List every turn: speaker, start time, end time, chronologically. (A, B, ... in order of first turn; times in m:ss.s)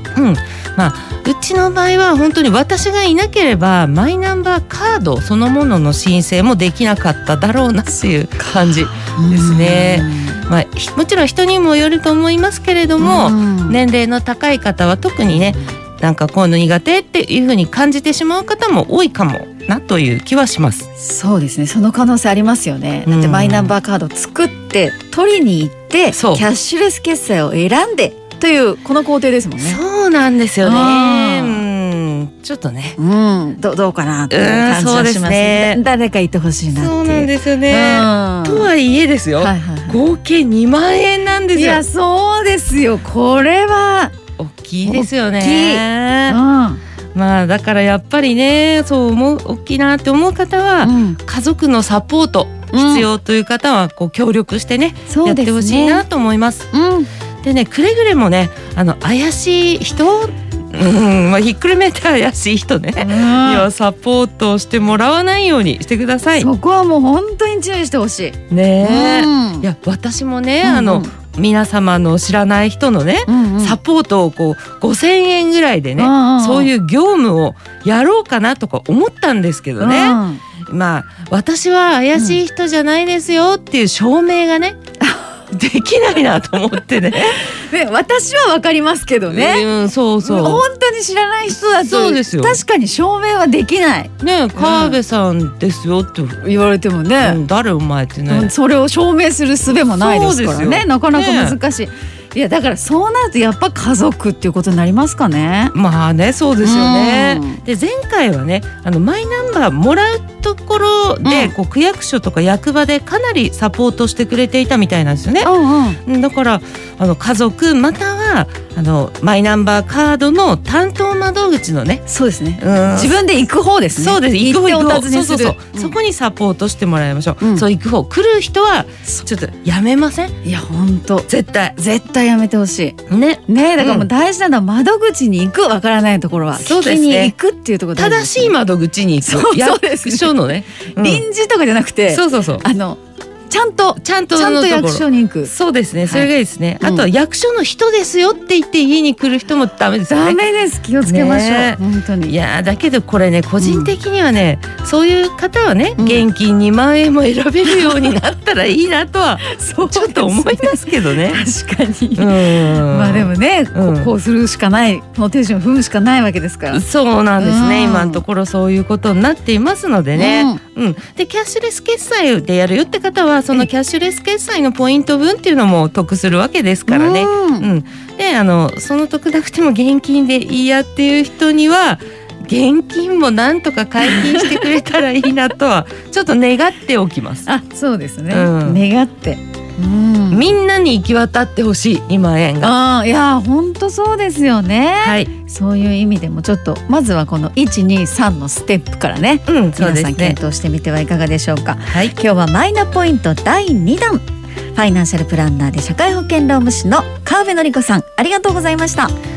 0:00.2-0:20.9 A
0:08.4-0:10.4 B
0:13.0-0:13.8 B
0:21.0-0:29.8 B
0:23.1-0:23.8 A
0:26.1-0:26.5 A
0:29.6-0:33.0 A
0:30.6-0:31.6 B
0:33.0-0:38.7 B
0:34.3-0:35.8 A
0:36.7-0:41.8 A
0:39.4-0:40.0 B
0:41.5-0:44.1 B
0:44.4-0:46.4 A
0:44.8-0:46.8 B
0:47.1-0:56.7 A
0:50.8-0:51.2 B
0:52.7-0:53.1 B
0:55.1-0:56.0 B
0:56.7-0:57.1 B
0:57.4-1:06.5 A
1:03.0-1:03.7 B
1:06.4-1:09.7 B
1:08.5-1:24.8 A
1:10.6-1:11.1 B
1:13.3-1:13.8 B
1:16.0-1:16.7 B
1:19.8-1:20.4 B
1:25.0-1:25.3 B
1:25.5-1:27.4 A
1:27.4-1:29.7 B
1:29.3-1:30.6 A
1:30.2-1:35.0 B
1:31.5-1:32.6 A
1:34.2-1:36.4 A
1:36.4-1:37.4 B
1:37.2-1:38.5 A
1:38.3-1:45.7 B
1:39.7-1:41.6 A
1:45.7-1:55.5 A
1:46.6-1:47.6 B
1:51.2-1:51.5 B
1:55.4-1:56.0 B
1:56.0-2:02.0 A
2:02.1-2:06.0 B
2:02.6-2:03.2 A
2:04.0-2:10.4 A
2:10.4-2:13.0 B
2:11.3-2:11.8 A
2:13.1-2:14.1 A
2:13.5-2:18.6 B
2:16.6-2:17.3 A
2:18.0-2:21.2 A
2:19.2-2:20.4 B
2:20.9-2:25.5 B
2:22.1-2:22.6 A
2:24.0-2:30.4 A
2:26.8-2:27.1 B
2:30.1-2:32.4 B
2:31.0-2:41.4 A
2:33.6-2:34.0 B
2:36.0-2:36.2 B
2:37.7-2:38.1 B
2:39.4-2:46.8 B
2:42.2-2:44.1 A
2:46.7-3:07.5 A
2:47.4-2:48.2 B
2:50.2-2:50.6 B
2:56.9-2:57.7 B
3:04.0-3:04.7 B
3:07.5-3:10.5 B
3:08.3-3:08.8 A
3:10.3-3:12.7 A
3:12.6-3:29.2 B
3:15.0-3:15.3 A
3:19.5-3:20.4 A
3:21.9-3:22.1 A